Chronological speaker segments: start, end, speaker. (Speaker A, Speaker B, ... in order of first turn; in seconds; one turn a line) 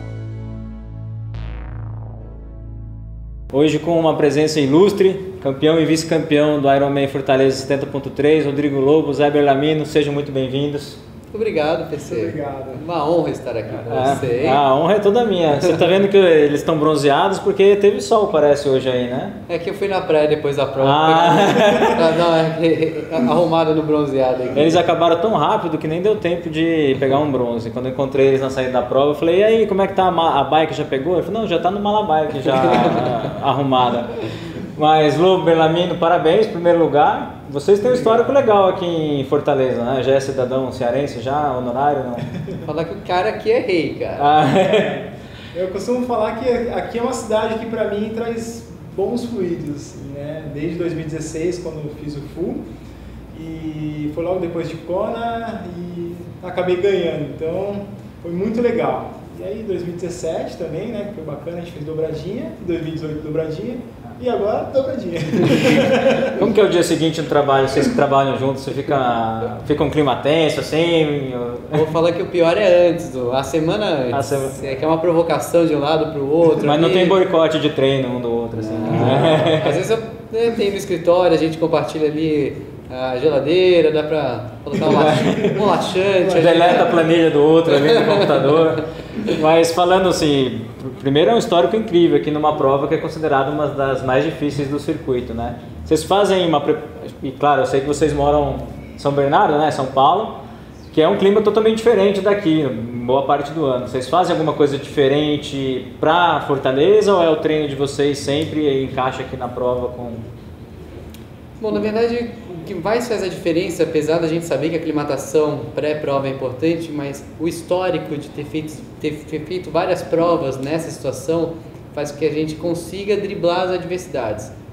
Speaker A: 3.5-11.0
Speaker B: 11.3-14.6
Speaker C: 12.0-12.8
Speaker A: 13.9-19.4
Speaker B: 19.5-24.8
Speaker A: 20.8-22.1
Speaker A: 24.5-34.2
Speaker B: 32.5-33.3
Speaker A: 34.7-42.3
Speaker B: 42.6-44.4
Speaker A: 44.2-45.0
Speaker C: 44.5-52.6
Speaker C: 53.3-66.4
Speaker A: 65.8-71.9
Speaker B: 71.7-77.2
Speaker A: 74.1-74.6
Speaker A: 76.6-79.8
Speaker B: 78.8-87.1
Speaker A: 84.8-85.7
Speaker A: 86.2-100.4
Speaker B: 87.7-88.8
Speaker A: 100.9-110.2
Speaker B: 111.6-124.5